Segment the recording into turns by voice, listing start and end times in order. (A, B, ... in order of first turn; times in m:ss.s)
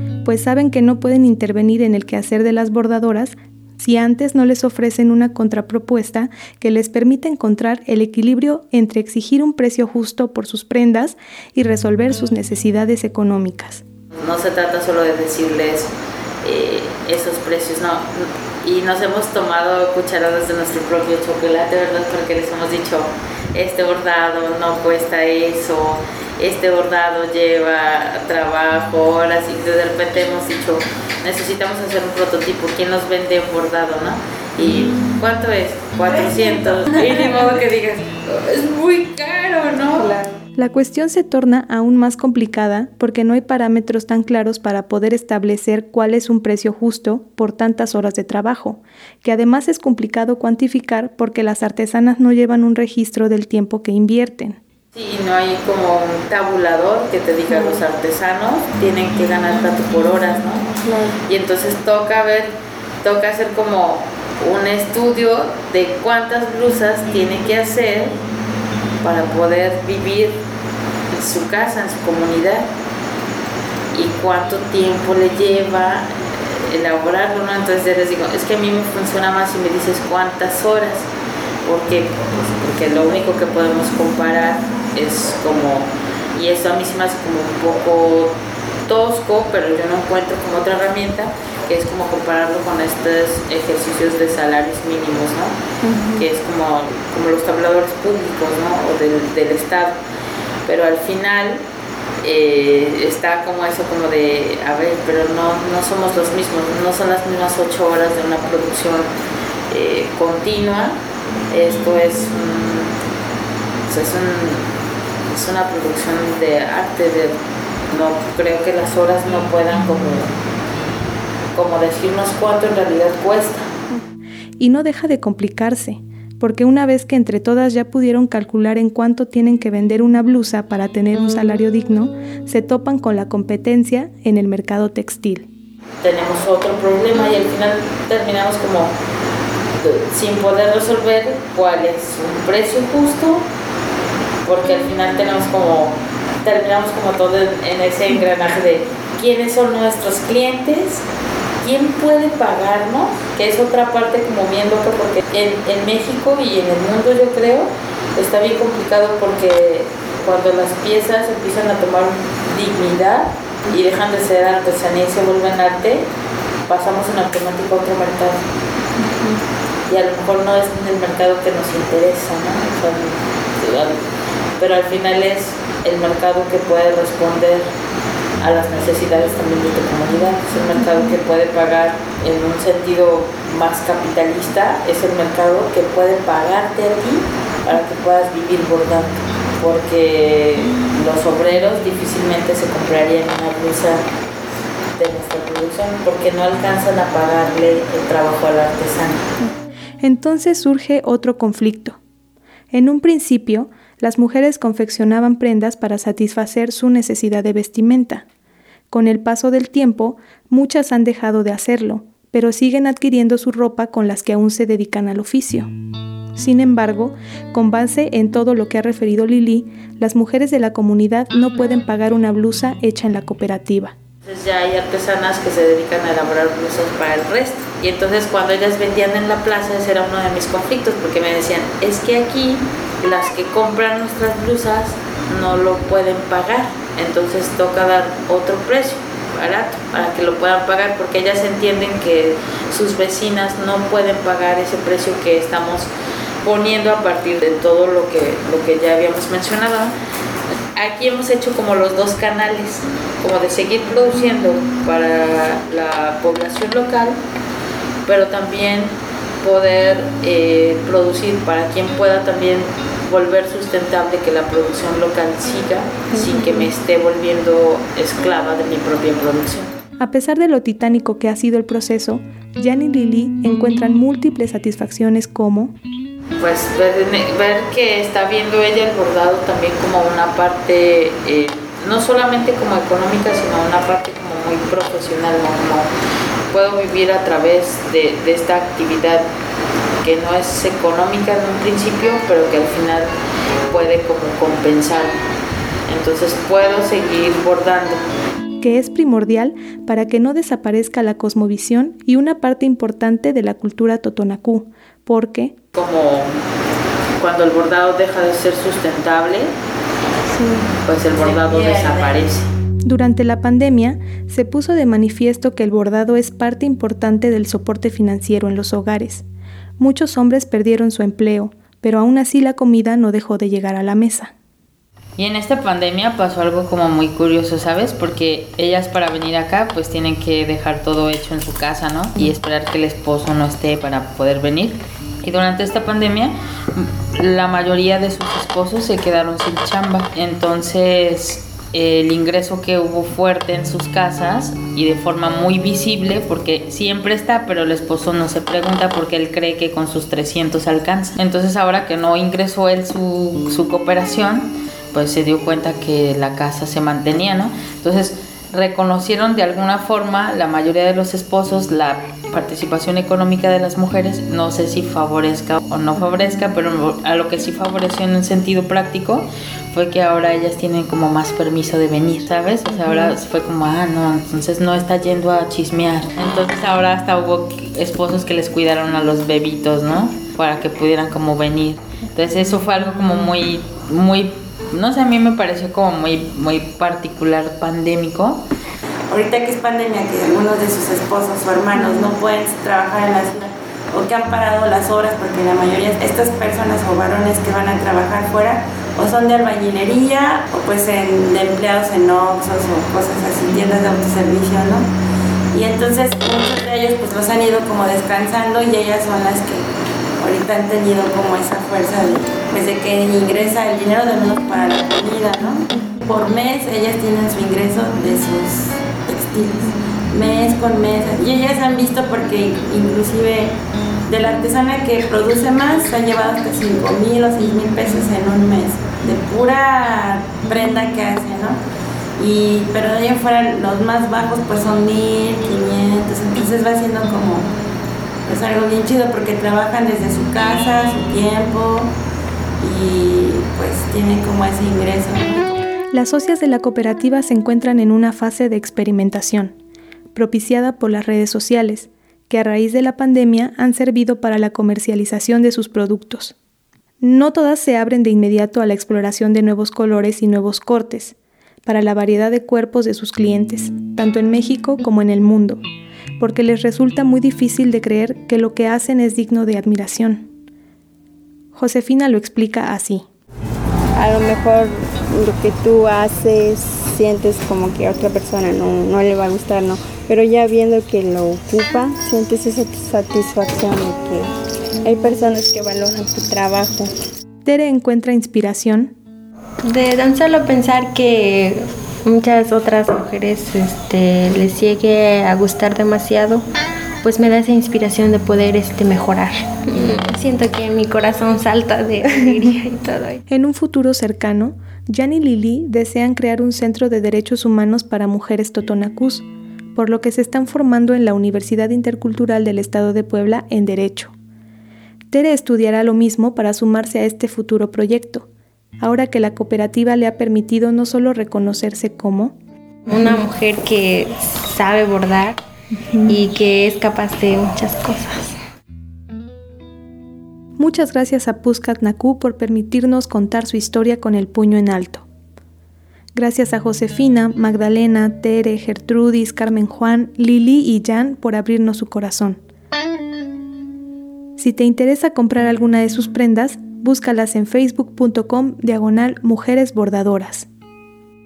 0:00.2-0:13.8 A
0:14.1-0:15.9 B
0:16.4-0:40.1 B
0:40.5-0:54.6 A
0:54.9-1:00.7 B
1:01.2-1:08.2 B
1:09.0-1:10.4 B
1:11.1-1:12.7 B
1:13.9-1:21.1 B
1:21.6-1:28.3 B
1:28.8-1:35.6 B
1:36.2-1:40.0 B
1:40.6-1:41.6 B
1:42.2-1:49.1 B
1:49.7-1:51.0 B
1:51.5-1:52.9 B
1:53.9-1:54.7 B
1:55.3-1:57.3 B
1:57.9-2:00.3 B
2:01.5-2:03.7 B
2:04.6-2:15.5 A
2:16.0-2:18.9 B
2:19.8-2:23.4 B
2:24.4-2:31.0 B
2:31.6-2:46.0 B
2:46.7-2:48.4 B
2:49.0-2:49.3 C
2:49.9-2:54.0 B
2:54.6-2:57.7 B
2:58.4-3:14.0 B
3:14.9-3:19.3 B
3:20.0-3:22.0 A
3:22.7-3:28.2 A
3:28.9-3:35.7 A
3:36.3-3:43.9 A
3:44.2-4:05.9 B
4:06.4-4:09.9 B
4:10.8-4:17.2 B
4:18.0-4:29.7 B
4:30.0-4:35.8 A
4:36.4-4:45.9 B
4:46.5-4:49.2 B
4:50.0-4:53.1 B
4:53.7-4:55.2 B
4:55.9-4:58.0 B
4:58.6-5:05.5 A
5:05.7-5:06.3 B
5:07.2-5:09.5 B
5:10.8-5:12.5 B
5:11.2-5:12.1 D
5:12.8-5:19.2 A
5:19.8-5:24.3 A
5:25.2-6:28.4 B
6:29.1-6:44.9 D
6:45.5-6:49.6 D
6:50.2-7:03.6 D
7:04.1-7:11.6 D
7:12.2-7:17.5 D
7:18.2-7:21.9 D
7:22.6-7:25.6 D
7:25.9-7:29.6 A
7:30.1-7:36.3 A
7:37.0-7:41.1 A
7:41.6-7:45.6 A
7:46.2-7:50.3 A
7:51.5-7:53.0 A
7:53.9-8:04.3 E
8:04.8-8:06.9 E
8:07.4-8:08.9 A
8:09.6-8:16.4 C
8:17.0-8:23.2 C
8:23.3-8:34.1 A
8:35.1-8:38.3 A
8:38.8-8:42.3 A
8:42.9-8:45.4 C
8:46.0-8:48.4 C
8:50.6-8:55.0 A
8:56.1-9:02.4 A
9:04.4-9:10.5 A